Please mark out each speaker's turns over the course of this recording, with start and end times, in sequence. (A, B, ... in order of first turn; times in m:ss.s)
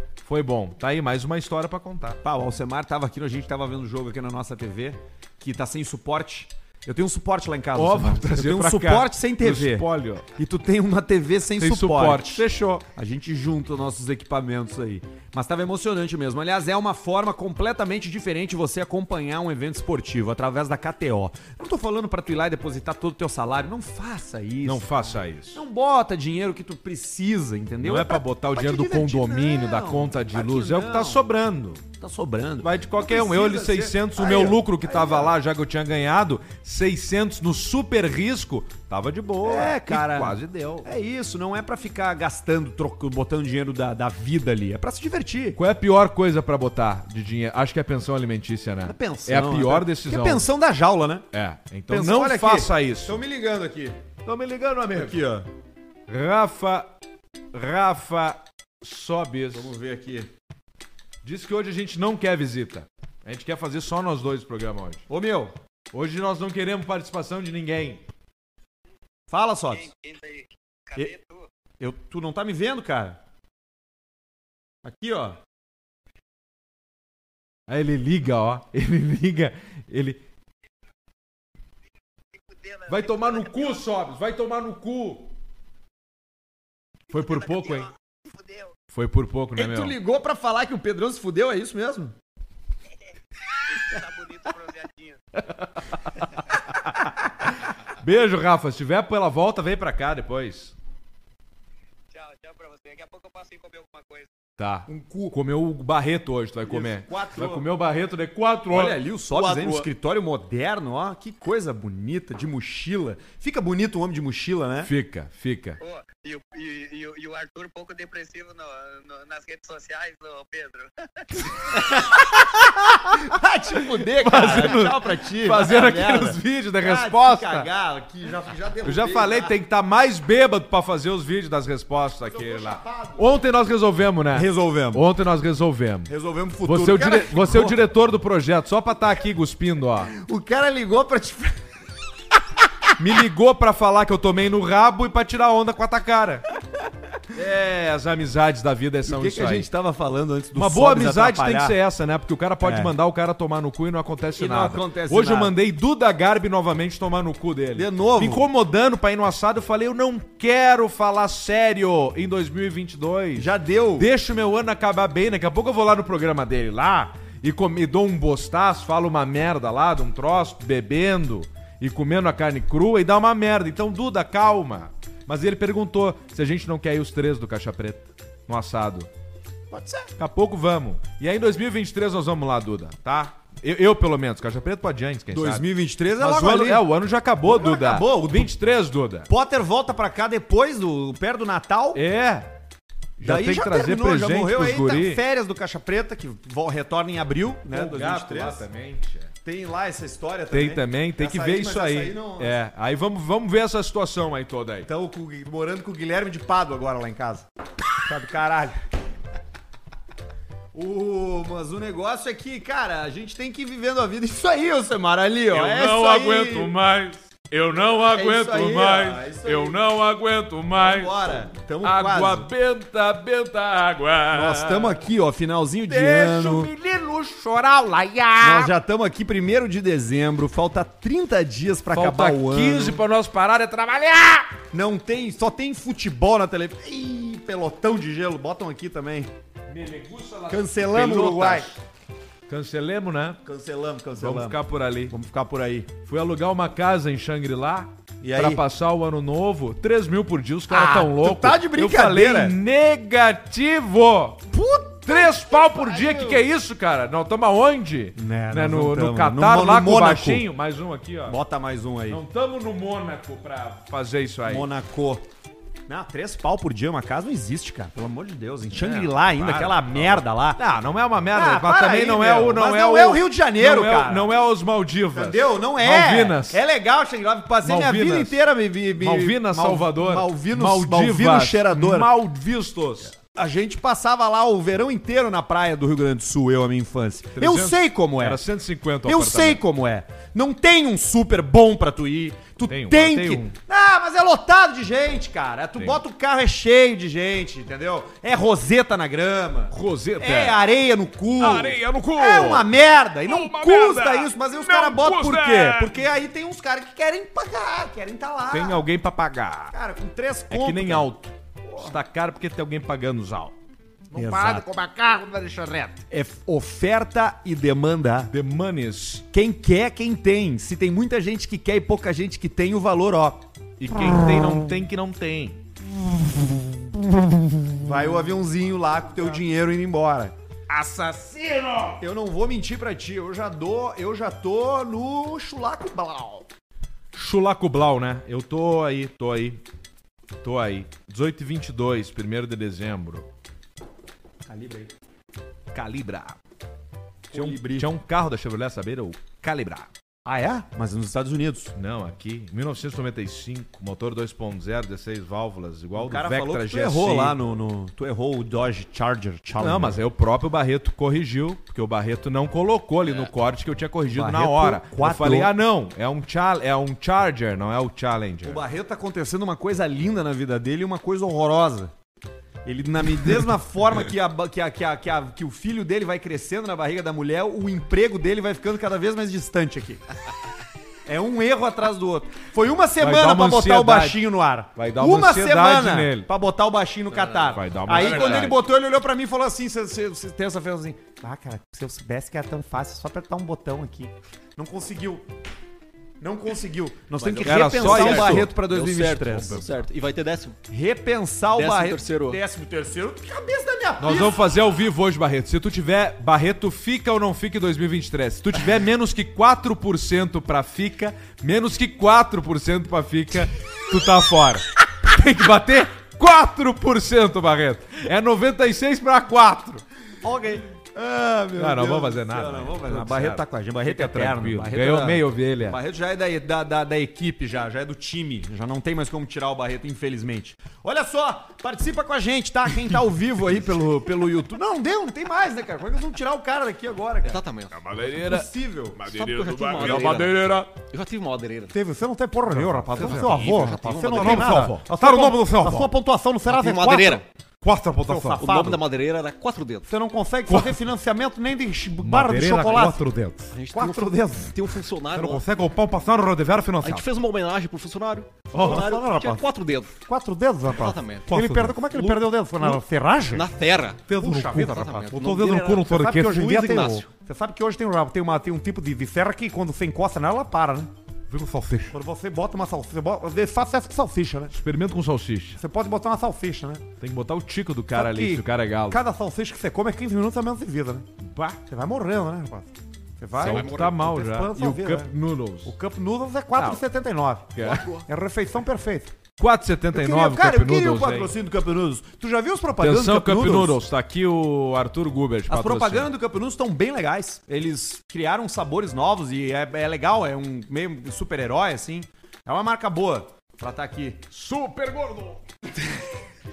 0:00.2-0:02.2 A
0:02.2-0:31.2 B
0:07.7-0:10.3 A
0:11.6-0:12.8 A
0:24.6-0:25.6 A
0:27.8-0:31.8 A
0:32.0-0:35.3 B
0:32.6-0:40.9 A
0:39.4-0:45.6 B
0:45.6-0:50.5 A
0:48.8-0:51.3 B
0:51.3-0:53.2 A
0:51.9-0:54.0 B
0:54.2-0:55.2 A
0:54.9-0:55.5 B
0:56.1-0:56.9 A
0:57.5-0:59.7 A
0:59.5-1:00.3 B
1:01.2-1:05.0 A
1:05.1-1:05.5 B
1:05.9-1:08.0 A
1:09.3-1:09.9 B
1:09.7-1:11.5 C
1:11.8-1:13.2 B
1:14.8-1:15.4 B
1:17.7-1:20.2 A
1:22.3-1:23.8 C
1:22.9-1:25.3 A
1:27.1-1:27.9 A
1:27.1-1:28.7 C
1:28.9-1:29.9 A
1:29.5-1:32.1 B
1:33.7-1:35.2 C
1:35.8-1:37.1 A
1:37.9-1:40.7 A
1:42.1-1:44.3 C
1:44.6-1:49.0 A
1:44.9-1:45.4 B
1:46.6-1:47.6 B
1:48.7-1:54.9 B
1:49.3-1:49.9 D
1:54.8-1:55.8 A
1:55.8-2:01.8 C
2:02.4-2:03.2 A
2:03.1-2:09.5 B
2:04.2-2:07.7 A
2:08.8-2:16.1 A
2:12.3-2:13.2 B
2:14.3-2:15.0 B
2:16.1-2:17.8 B
2:16.6-2:20.1 A
2:20.1-2:21.6 B
2:23.0-2:26.4 A
2:27.3-2:29.7 A
2:29.0-2:31.8 B
2:30.5-2:59.1 A
2:32.6-2:32.9 B
2:34.3-2:35.5 B
2:37.8-2:38.4 B
2:43.3-2:44.1 B
2:59.7-3:00.1 B
3:00.2-3:09.3 A
3:05.3-3:06.9 B
3:07.4-3:08.5 B
3:09.3-3:12.0 B
3:11.9-3:12.5 A
3:13.2-3:15.2 A
3:13.2-3:18.6 B
3:17.6-3:19.3 A
3:19.4-3:22.5 B
3:20.5-3:24.9 A
3:24.8-3:27.5 B
3:28.0-3:28.8 B
3:30.7-3:36.7 B
3:35.5-3:41.2 A
3:38.1-3:39.8 B
3:40.8-3:42.5 B
3:41.8-3:45.1 A
3:44.3-3:46.7 B
3:45.9-3:48.7 A
3:48.4-3:53.0 B
3:51.9-3:54.6 A
3:54.7-3:59.3 B
3:59.7-4:01.8 A
4:00.5-4:01.7 B
4:02.5-4:03.4 A
4:03.4-4:05.9 B
4:04.2-4:05.1 A
4:06.0-4:14.4 A
4:08.2-4:08.6 B
4:10.7-4:12.6 B
4:14.5-4:16.4 B
4:15.0-4:21.4 A
4:18.2-4:20.4 B
4:21.3-4:22.2 B
4:22.1-4:24.7 A
4:24.5-4:25.2 B
4:25.9-4:30.6 B
4:28.7-4:36.6 A
4:31.3-4:34.3 B
4:35.1-4:42.1 B
4:37.6-4:38.4 A
4:38.9-4:43.1 A
4:43.3-4:48.4 B
4:47.3-4:49.6 A
4:49.0-5:08.8 B
4:52.6-4:53.6 A
4:55.8-4:56.0 A
4:59.7-5:00.6 A
5:01.4-5:02.7 A
5:03.2-5:06.0 A
5:08.5-5:09.7 A
5:09.7-5:11.1 B
5:10.5-5:13.5 A
5:11.6-5:12.0 B
5:14.1-5:16.0 A
5:14.1-5:14.6 B
5:16.1-5:18.3 B
5:18.3-5:19.2 A
5:19.3-5:23.4 B
5:23.8-5:25.6 A
5:27.7-5:30.3 B
5:30.7-5:32.0 A
5:32.0-5:36.4 B
5:37.1-5:39.6 A
5:40.4-5:43.3 A
5:44.4-5:44.9 B
5:45.7-5:46.4 A
5:47.3-5:47.9 B
5:47.3-5:49.9 A
5:50.2-5:51.7 B
5:51.7-5:57.4 A
5:56.0-6:00.0 B
5:59.6-6:08.6 A
6:03.0-6:03.3 D
6:04.1-6:05.5 B
6:08.4-6:11.9 B
6:12.6-6:20.0 B
6:21.0-6:35.2 B
6:23.0-6:26.3 A
6:27.1-6:28.6 D
6:27.5-6:28.6 A
6:36.2-6:39.7 B
6:37.2-6:40.6 D
6:37.4-6:38.5 A
6:40.7-6:44.4 B
6:41.5-6:42.4 D
6:44.0-6:59.8 A
7:00.2-7:17.4 B
7:01.6-7:05.8 A
7:17.2-7:17.9 D
7:17.7-7:20.7 A
7:18.0-7:19.0 B
7:19.0-7:21.7 D
7:19.8-7:20.5 B
7:21.7-7:27.2 B
7:22.5-7:23.5 A
7:23.0-7:24.7 D
7:24.1-7:25.9 A
7:26.5-7:27.2 D
7:27.6-7:28.4 A
7:28.0-7:28.8 B
7:28.4-7:29.9 D
7:29.8-7:33.0 B
7:30.5-7:30.8 A
7:32.0-7:33.5 A
7:33.5-7:35.4 D
7:33.7-7:34.5 B
7:35.1-7:37.0 A
7:36.8-7:39.9 D
7:38.5-7:39.4 B
7:38.5-7:38.8 A
7:40.0-7:43.5 B
7:40.7-7:41.3 D
7:41.3-7:42.8 A
7:43.3-7:45.9 D
7:44.1-7:47.0 A
7:44.1-7:50.9 B
7:46.4-7:47.1 D
7:51.3-7:51.9 A
7:51.9-7:54.5 B
7:54.5-7:55.6 A
7:55.6-7:56.8 B
7:57.0-7:59.0 A
7:57.9-8:05.1 B
8:01.2-8:01.6 A
8:03.3-8:05.8 A
8:03.4-8:04.0 D
8:05.6-8:09.1 B
8:06.5-8:06.8 A
8:07.5-8:07.9 A
8:07.6-8:08.0 D
8:09.4-8:11.3 A
8:09.9-8:13.8 B
8:12.8-8:16.1 A
8:15.5-8:24.2 B
8:24.3-8:25.4 A